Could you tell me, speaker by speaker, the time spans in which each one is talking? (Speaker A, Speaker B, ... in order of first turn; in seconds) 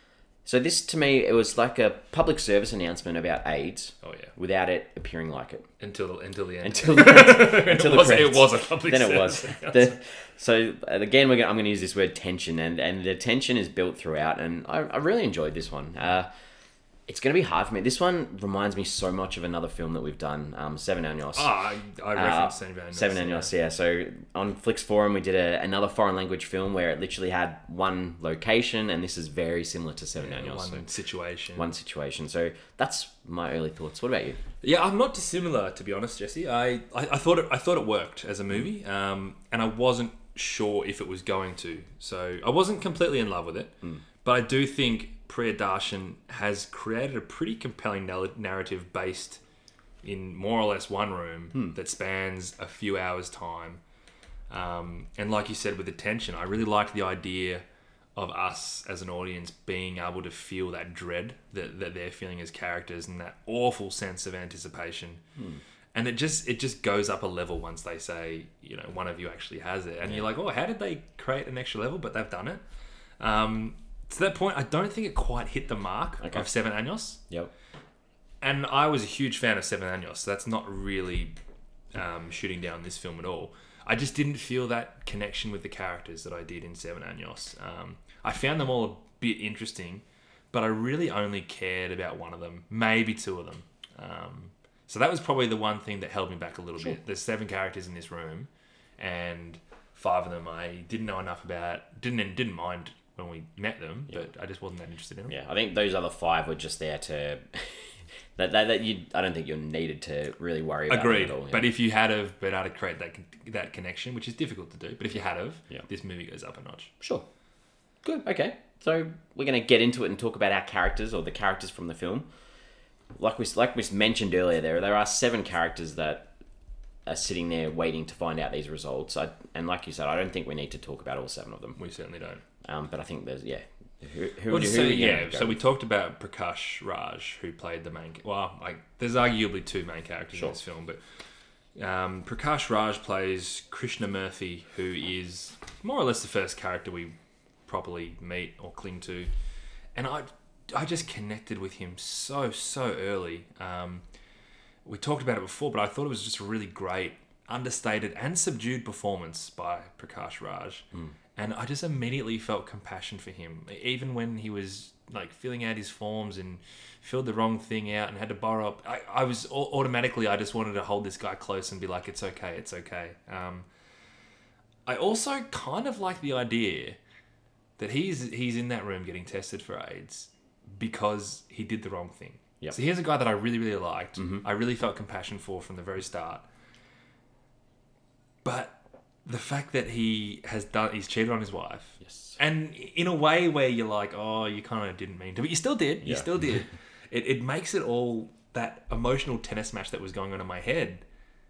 Speaker A: 0.4-5.7, 6.6-16.3, 17.1-21.5, 22.1-30.8, 31.6-34.4, 76.2-76.5, 105.3-111.7, 117.0-117.2, 118.0-122.3, 123.2-126.3, 127.0-131.8, 132.6-135.6, 184.2-184.4, 192.0-192.4, 196.0-196.3
Speaker B: 4.0-4.3, 5.8-9.9, 21.3-23.5, 30.1-31.7, 34.6-49.4, 50.0-53.8, 54.5-57.6, 58.1-65.2, 65.9-72.6, 73.2-77.2, 78.4-81.3, 81.9-105.3, 110.9-116.9, 131.8-132.4, 134.5-141.0, 141.8-147.1, 147.7-149.3, 149.9-154.0, 154.8-160.8, 161.3-173.7, 174.8-177.0, 177.8-186.4, 188.4-201.0